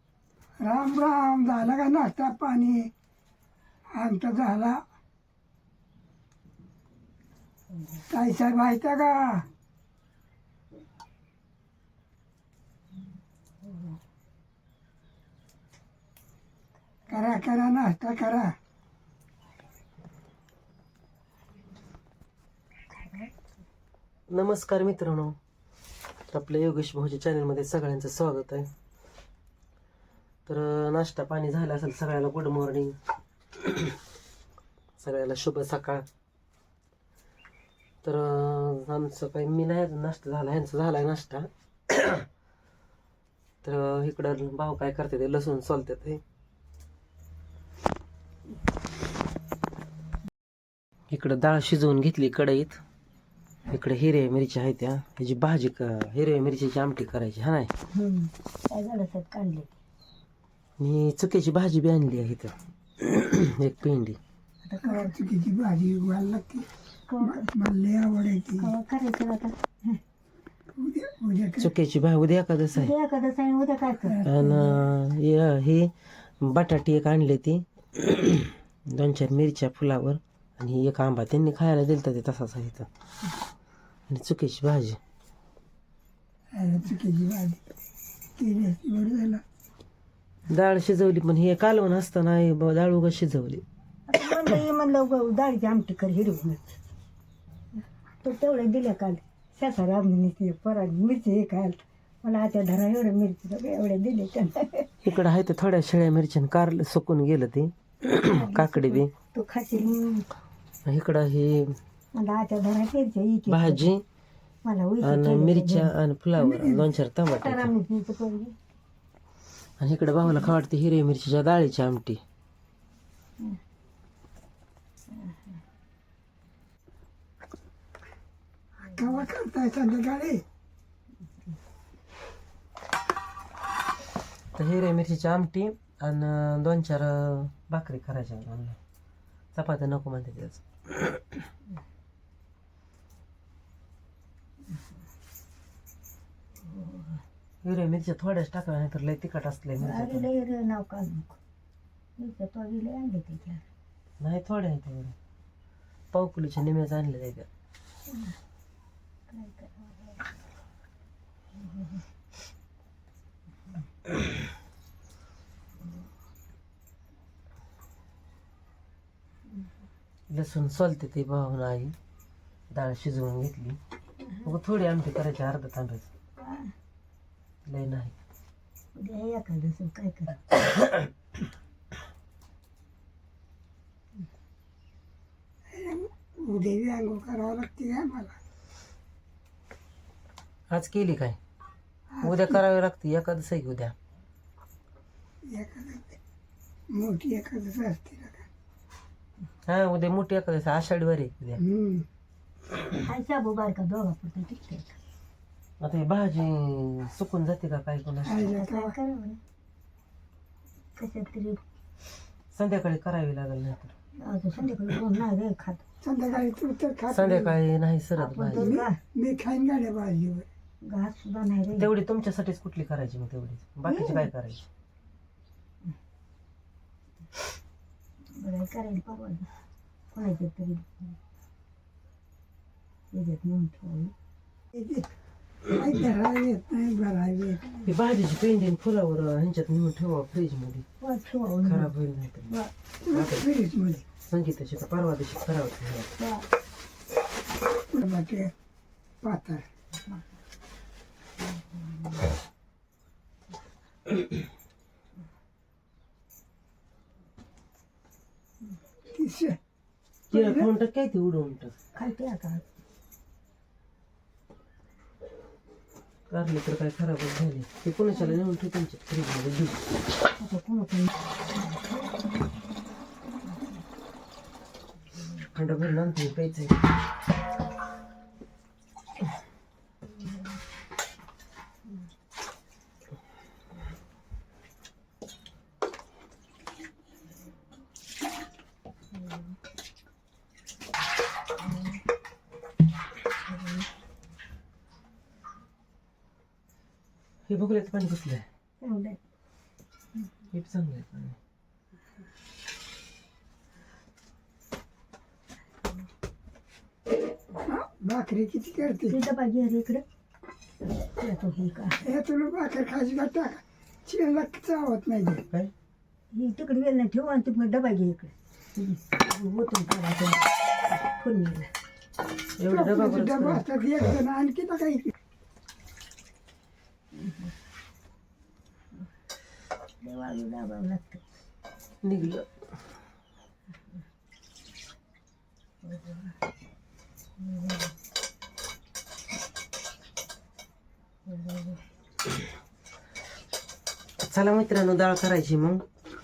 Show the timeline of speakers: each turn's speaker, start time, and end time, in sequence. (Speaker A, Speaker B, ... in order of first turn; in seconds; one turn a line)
Speaker A: 0.6-2.9
Speaker A: 3.9-4.8
Speaker A: 8.1-9.4
Speaker A: 17.1-18.5
Speaker B: 23.0-23.3
Speaker C: 24.3-25.4
Speaker C: 26.3-28.7
Speaker C: 30.4-33.0
Speaker C: 35.0-36.0
Speaker C: 38.0-42.2
Speaker C: 43.6-46.2
Speaker C: 51.1-52.8
Speaker C: 53.7-57.7
Speaker B: 57.9-59.7
Speaker C: 60.8-64.2
Speaker B: 64.6-65.2
Speaker A: 64.8-66.7
Speaker B: 67.1-67.5
Speaker A: 67.2-68.7
Speaker B: 68.6-70.0
Speaker A: 70.7-71.7
Speaker C: 71.6-72.9
Speaker B: 72.7-74.3
Speaker A: 74.0-74.7
Speaker C: 74.2-82.9
Speaker C: 84.1-85.0
Speaker A: 86.5-87.6
Speaker A: 88.4-89.4
Speaker C: 90.5-93.6
Speaker B: 94.1-96.7
Speaker B: 98.2-104.9
Speaker C: 105.0-109.1
Speaker B: 108.1-110.3
Speaker C: 110.8-111.8
Speaker B: 112.1-113.9
Speaker C: 113.5-114.0
Speaker B: 114.6-115.9
Speaker C: 115.0-117.7
Speaker A: 116.4-116.8
Speaker B: 117.3-118.5
Speaker C: 119.8-122.2
Speaker A: 128.9-130.4
Speaker C: 134.5-138.8
Speaker C: 139.5-141.1
Speaker C: 147.6-150.2
Speaker B: 149.8-151.4
Speaker B: 152.2-153.6
Speaker C: 154.2-155.1
Speaker C: 156.1-157.5
Speaker B: 159.3-160.1
Speaker C: 170.3-171.9
Speaker C: 172.7-173.8
Speaker C: 174.4-176.1
Speaker B: 176.4-176.7
Speaker C: 177.7-178.1
Speaker B: 178.9-180.5
Speaker A: 185.7-188.4
Speaker C: 190.7-191.4
Speaker A: 192.1-192.6
Speaker C: 192.2-193.9
Speaker A: 195.4-196.2
Speaker A: 196.9-198.5
Speaker C: 199.7-201.6
Speaker A: 201.6-202.1
Speaker B: 203.0-204.9
Speaker C: 205.8-208.5
Speaker A: 208.2-208.9
Speaker B: 208.4-209.4
Speaker B: 210.9-211.6
Speaker C: 212.5-213.9
Speaker B: 214.2-215.8
Speaker A: 216.0-217.6
Speaker C: 217.1-218.7
Speaker B: 218.2-219.0
Speaker A: 218.5-220.5
Speaker B: 220.8-221.9
Speaker C: 221.8-224.7
Speaker B: 223.8-224.2
Speaker B: 228.3-229.5
Speaker B: 230.1-231.0
Speaker B: 233.1-234.1
Speaker A: 234.7-235.1
Speaker A: 235.7-237.7
Speaker C: 237.8-240.8
Speaker B: 241.0-241.9
Speaker C: 241.6-242.5
Speaker A: 243.0-244.1
Speaker C: 243.1-243.5
Speaker C: 244.2-246.1
Speaker B: 246.2-246.4
Speaker A: 247.9-248.5
Speaker A: 249.2-249.7
Speaker A: 259.1-259.6
Speaker C: 260.3-261.7
Speaker A: 260.3-260.7
Speaker B: 261.9-262.6
Speaker C: 266.3-269.8
Speaker B: 270.4-271.1
Speaker C: 275.5-276.8
Speaker C: 297.5-298.4
Speaker B: 298.8-299.2
Speaker C: 300.5-301.4
Speaker A: 307.6-309.2
Speaker B: 309.0-310.0
Speaker B: 311.1-312.0
Speaker A: 312.0-315.4
Speaker B: 316.3-321.7
Speaker C: 322.6-323.6
Speaker A: 322.7-325.1
Speaker B: 330.0-331.2
Speaker C: 332.0-332.5
Speaker C: 344.2-345.8